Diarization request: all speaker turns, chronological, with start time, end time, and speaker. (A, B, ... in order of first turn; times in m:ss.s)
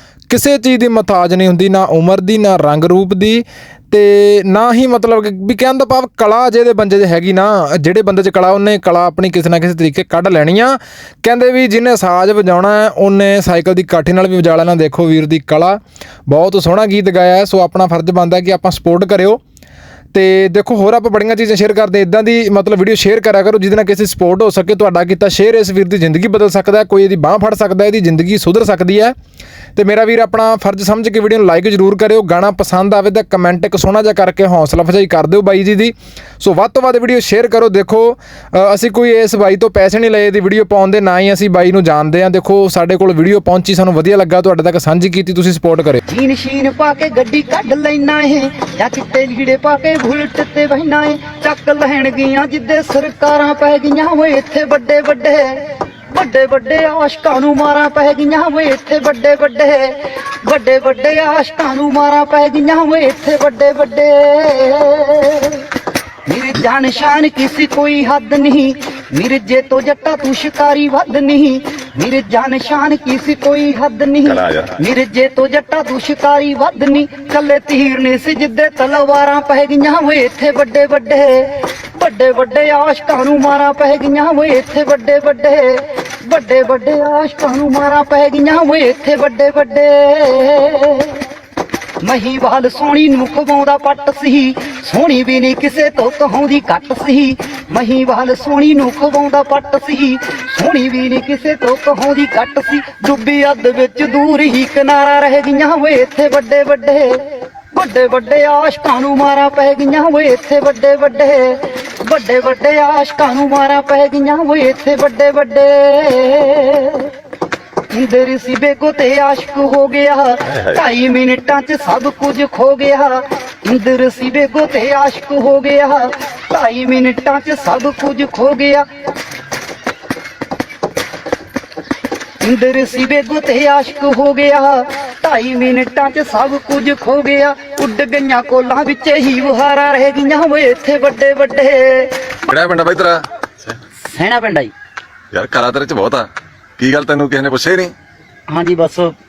0:00.3-0:19.4 A
0:20.1-0:29.1 A
0:29.8-0:46.0 A
0:46.1-1:05.7 B
1:06.3-1:31.3 B
1:14.3-1:14.8 C
1:32.0-1:57.1 B
1:57.9-2:08.8 B
2:12.4-2:22.4 B
2:22.5-2:23.7 C
2:24.0-2:24.7 B
2:25.3-2:26.3 C
2:26.8-2:27.9 C
2:28.5-2:29.1 B